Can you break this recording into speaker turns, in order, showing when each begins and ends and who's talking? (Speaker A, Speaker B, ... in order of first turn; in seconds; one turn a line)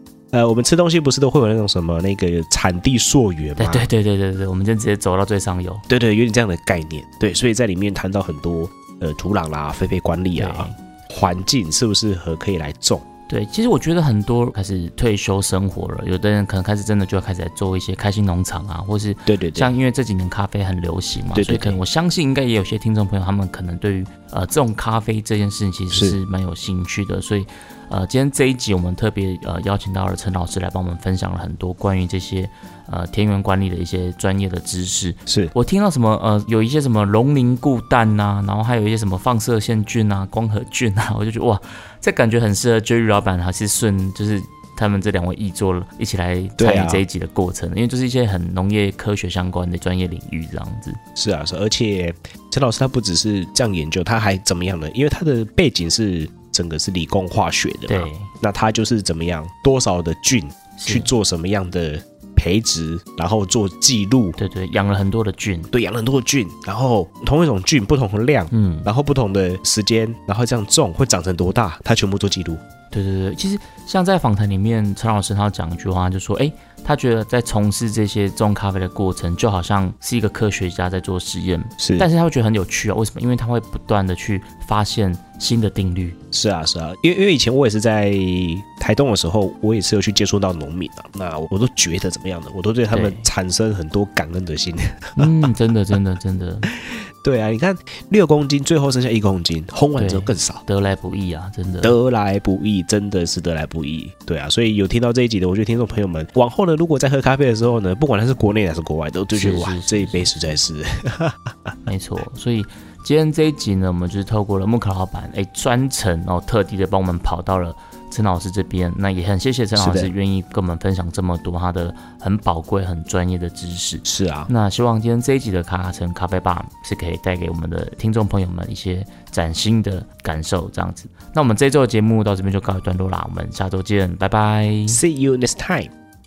Speaker A: 0.3-3.9
Speaker B: 3.6-5.8
Speaker A: 5.9-13.0
Speaker B: 10.3-10.7
Speaker B: 13.3-51.0
Speaker A: 19.3-19.7
Speaker A: 21.3-21.8
Speaker A: 25.9-26.2
Speaker A: 35.3-35.5
Speaker A: 46.6-47.0
Speaker A: 51.2-64.3
Speaker B: 57.9-58.3
Speaker B: 60.8-61.1
Speaker B: 64.4-65.7
Speaker A: 65.7-72.6
Speaker B: 68.5-68.9
Speaker B: 72.9-86.2
Speaker A: 81.8-82.1
Speaker A: 86.3-95.3
Speaker B: 92.9-93.2
Speaker B: 95.2-96.7
Speaker A: 96.8-100.6
Speaker B: 100.0-102.0
Speaker A: 101.8-111.7
Speaker B: 109.3-110.4
Speaker B: 111.8-135.0
Speaker A: 119.8-120.1
Speaker A: 124.0-124.5
Speaker A: 134.9-135.9